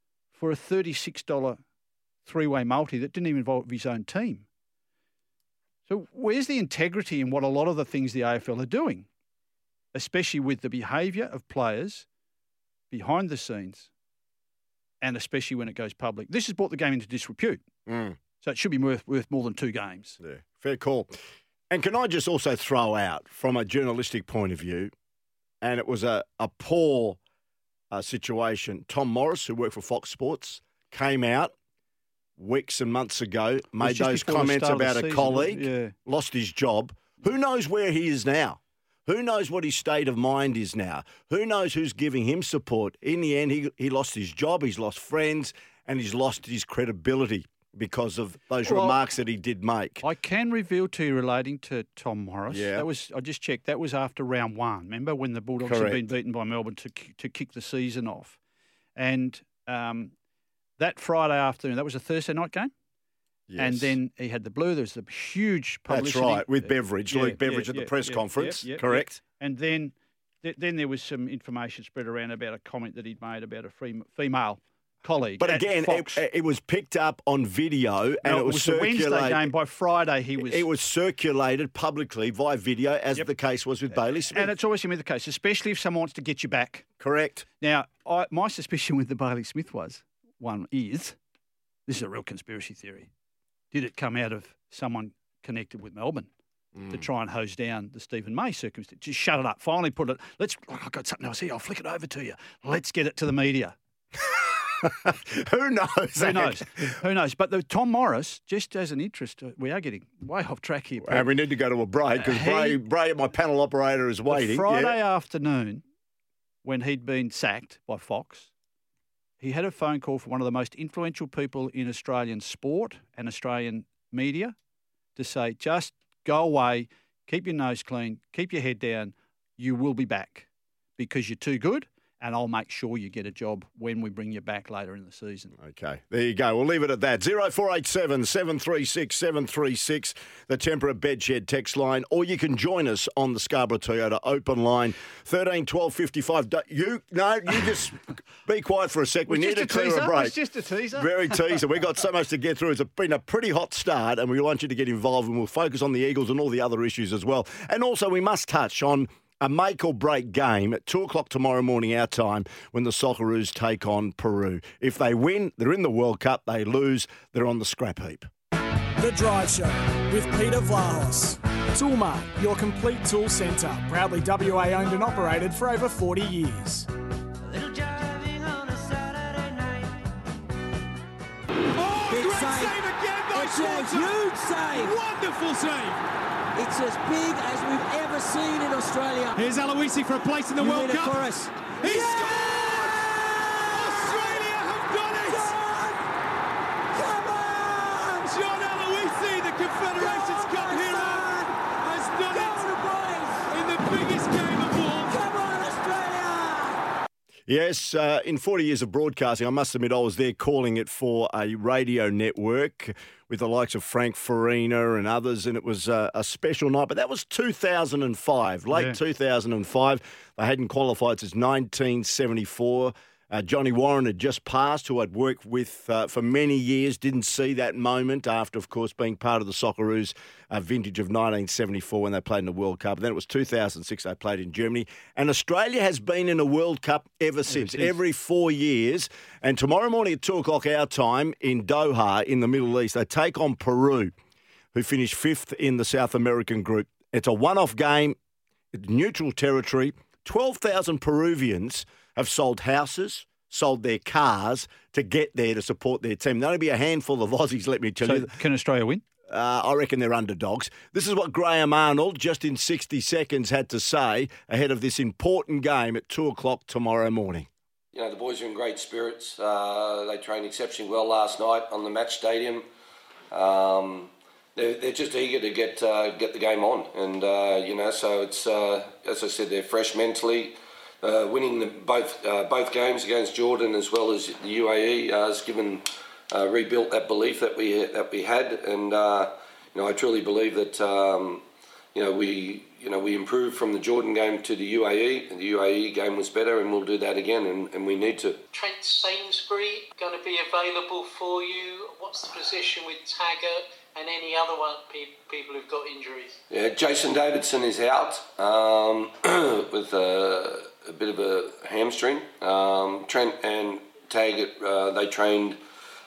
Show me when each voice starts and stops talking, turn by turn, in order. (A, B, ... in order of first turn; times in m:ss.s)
0:00.3-0:01.6 A
0:02.2-0:04.5 A
0:05.9-0:09.1 A
0:09.9-0:12.1 A
0:12.9-0:13.9 A
0:15.0-0:17.6 A
0:17.9-0:18.2 B
0:18.4-0:20.2 A
0:20.2-0:21.2 B
0:21.7-0:24.9 B
0:25.6-0:27.2 B
0:27.9-0:31.5 B
0:32.4-0:50.0 B
0:33.8-0:35.9 A
0:48.6-0:49.0 A
0:50.0-0:58.4 A
0:52.5-0:52.9 B
0:55.6-0:56.0 B
0:59.0-1:00.1 A
1:00.8-1:02.7 A
1:03.5-1:04.0 B
1:03.6-1:16.2 A
1:05.9-1:09.2 B
1:15.4-1:19.5 B
1:18.2-1:20.6 A
1:20.4-1:24.5 B
1:24.3-1:26.9 A
1:27.0-1:27.5 B
1:27.6-1:31.2 A
1:31.9-1:33.1 A
1:33.7-1:36.3 A
1:36.8-1:37.0 B
1:36.9-1:43.8 A
1:44.2-1:47.0 B
1:46.2-1:51.3 A
1:51.0-1:55.0 B
1:52.2-1:52.8 A
1:54.3-1:55.8 A
1:56.6-1:58.5 A
1:59.4-2:04.6 A
2:05.2-2:10.5 A
2:11.0-2:15.5 A
2:15.6-2:30.4 B
2:29.3-2:31.6 A
2:31.0-2:48.3 B
2:49.0-2:56.9 C
3:01.8-3:04.1 D
3:02.0-3:02.8 E
3:03.3-3:05.0 E
3:04.7-3:06.0 D
3:06.6-3:09.4 E
3:09.4-3:11.2 D
3:10.6-3:12.3 E
3:11.8-3:15.6 D
3:13.0-3:14.4 E
3:15.2-3:16.0 E
3:17.0-3:18.3 E
3:18.3-3:22.8 D
3:19.8-3:23.5 E
3:23.5-3:25.3 D
3:25.0-3:26.8 E
3:27.5-4:04.1 B
3:38.7-3:39.0 A
3:57.5-3:58.0 A
4:04.7-4:08.2 B
4:08.7-4:18.3 B
4:18.0-4:19.0 A
4:19.3-4:27.5 B
4:27.9-4:32.7 F
4:33.3-4:58.4 F
4:58.5-5:06.4 G
5:06.5-5:15.6 F